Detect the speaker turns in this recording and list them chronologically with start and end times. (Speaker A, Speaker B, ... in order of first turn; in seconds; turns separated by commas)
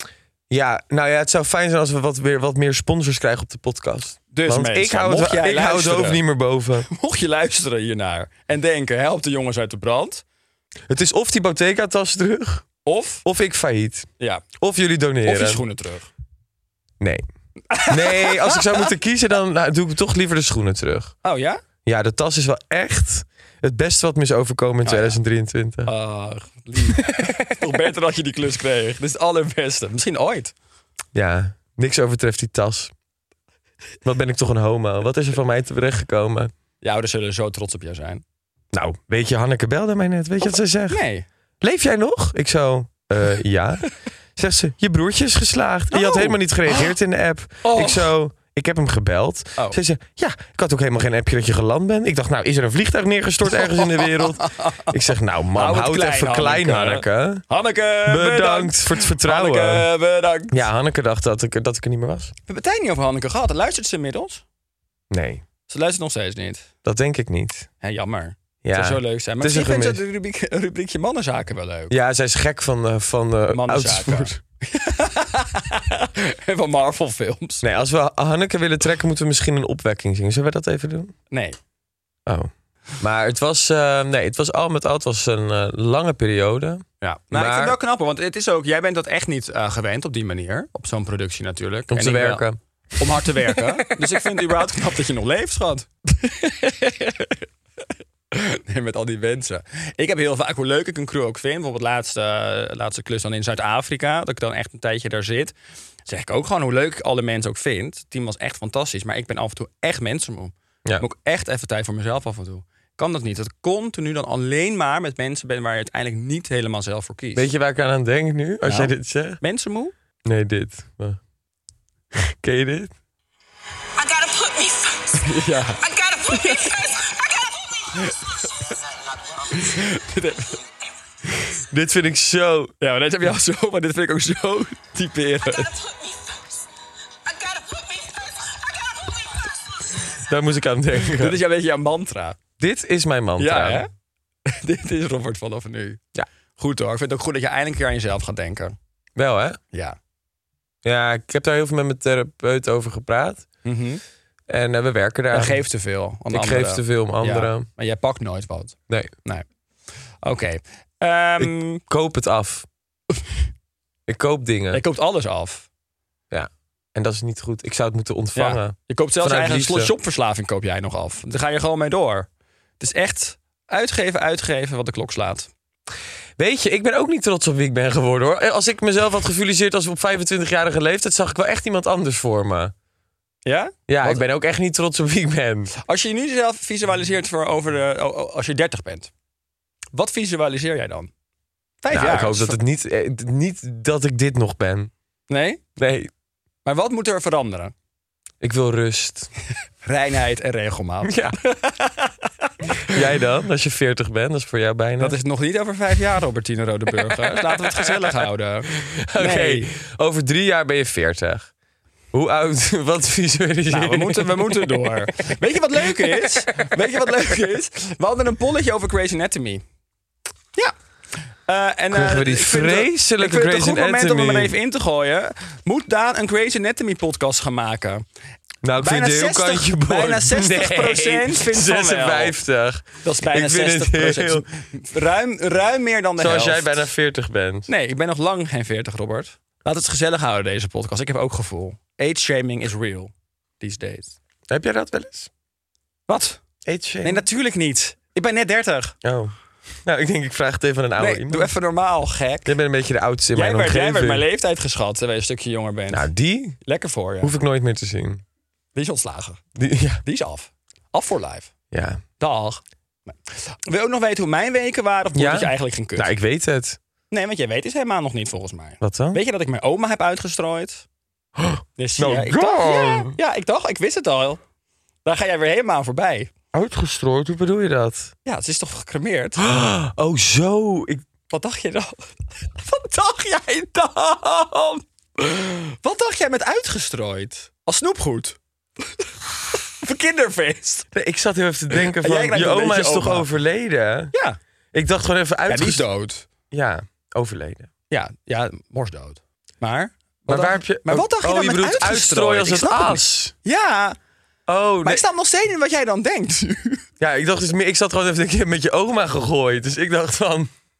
Speaker A: 0.5-6.9, Speaker B: 4.3-6.2, Speaker B: 6.9-10.2, Speaker A: 10.9-12.7, Speaker B: 12.9-13.2, Speaker A: 13.2-15.6, Speaker B: 14.2-14.4, Speaker B: 15.2-16.1, Speaker A: 17.0-17.3, Speaker B: 17.7-18.9, Speaker A: 17.9-21.1, Speaker B: 21.2-21.6, Speaker A: 21.9-25.9, Speaker B: 24.8-25.2, Speaker B: 25.9-30.5, Speaker A: 26.9-27.4, Speaker A: 31.1-32.9, Speaker A: 34.0-36.5, Speaker B: 36.8-38.2, Speaker A: 38.7-41.0, Speaker B: 40.4-41.3, Speaker A: 41.6-57.5, Speaker B: 45.9-46.9, Speaker B: 47.6-48.1, Speaker B: 53.6-54.9, Speaker B: 55.5-60.6, Speaker A: 58.1-59.9, Speaker A: 60.5-62.3, Speaker B: 62.5-64.4, Speaker A: 65.1-65.4, Speaker B: 65.7-66.7, Speaker A: 66.8-67.7, Speaker B: 67.8-71.9, Speaker A: 68.6-70.0, Speaker A: 71.9-74.4, Speaker B: 73.5-77.7, Speaker A: 77.6-81.1, Speaker B: 81.3-81.6, Speaker A: 82.3-87.8, Speaker B: 87.0-92.5, Speaker A: 91.9-92.6, Speaker B: 93.0-97.5, Speaker A: 93.5-94.0, Speaker B: 98.3-105.5, Speaker B: 106.1-117.5, Speaker A: 117.3-119.4, Speaker B: 118.7-119.9, Speaker A: 120.2-121.2, Speaker A: 122.2-123.0, Speaker C: 124.0-125.2, Speaker B: 125.2-126.7, Speaker C: 125.8-128.1, Speaker C: 128.6-129.6, Speaker B: 129.5-130.6, Speaker A: 131.7-132.7, Speaker B: 132.8-135.8, Speaker C: 135.5-136.5, Speaker C: 137.3-139.5, Speaker A: 140.2-141.4, Speaker B: 141.1-142.4, Speaker A: 142.6-143.8, Speaker B: 143.4-143.9, Speaker B: 144.5-146.0, Speaker B: 146.6-148.8, Speaker A: 149.2-149.6, Speaker B: 149.7-150.0, Speaker A: 150.8-153.5, Speaker B: 153.7-154.0, Speaker A: 154.5-155.6, Speaker B: 155.3-159.4, Speaker A: 156.3-157.7, Speaker B: 160.2-161.8, Speaker A: 161.4-162.7, Speaker A: 164.1-164.8, Speaker B: 164.7-165.7, Speaker A: 166.3-169.9, Speaker B: 168.4-172.3, Speaker B: 172.8-175.5, Speaker A: 176.4-182.7, Speaker B: 183.4-184.2, Speaker A: 183.9-185.7, Speaker B: 185.8-189.1, Speaker B: 189.9-191.1, Speaker B: 191.8-192.6, Speaker A: 191.9-194.9, Speaker B: 195.3-195.6, Speaker A: 195.8-196.1, Speaker B: 196.7-197.7, Speaker A: 198.4-199.3, Speaker B: 199.8-203.0, Speaker A: 201.0-201.4, Speaker A: 202.9-205.2, Speaker B: 205.0-209.7, Speaker A: 207.1-208.2, Speaker A: 208.9-211.5, Speaker A: 212.1-217.2, Speaker B: 213.7-219.6, Speaker B: 220.6-228.0, Speaker A: 221.9-224.6, Speaker A: 228.6-234.4, Speaker B: 228.8-232.4, Speaker B: 233.0-236.8, Speaker A: 236.2-237.7, Speaker B: 237.7-244.2, Speaker A: 244.5-245.3, Speaker B: 246.1-246.4, Speaker A: 246.7-247.2, Speaker B: 247.0-249.0, Speaker A: 249.0-251.5, Speaker B: 251.0-252.6, Speaker A: 252.4-254.3, Speaker B: 253.3-256.1, Speaker A: 255.9-256.6, Speaker B: 256.6-257.4, Speaker A: 257.2-258.2, Speaker B: 258.8-259.4, Speaker A: 259.6-260.0, Speaker B: 260.0-261.5, Speaker A: 261.7-262.0, Speaker B: 262.2-266.1, Speaker A: 265.1-266.8, Speaker B: 267.1-270.9, Speaker A: 268.8-269.2, Speaker A: 271.4-273.2, Speaker B: 271.8-274.4, Speaker B: 275.1-276.3, Speaker A: 276.5-278.1, Speaker B: 278.2-279.4, Speaker A: 279.4-281.1, Speaker B: 281.3-290.9, Speaker A: 290.9-294.1, Speaker B: 291.7-293.3, Speaker B: 294.1-294.4, Speaker A: 294.7-295.9, Speaker B: 295.5-296.3, Speaker A: 296.5-297.7, Speaker B: 297.9-304.0, Speaker A: 300.3-303.3, Speaker A: 304.5-305.0, Speaker B: 304.8-306.8, Speaker A: 307.0-310.5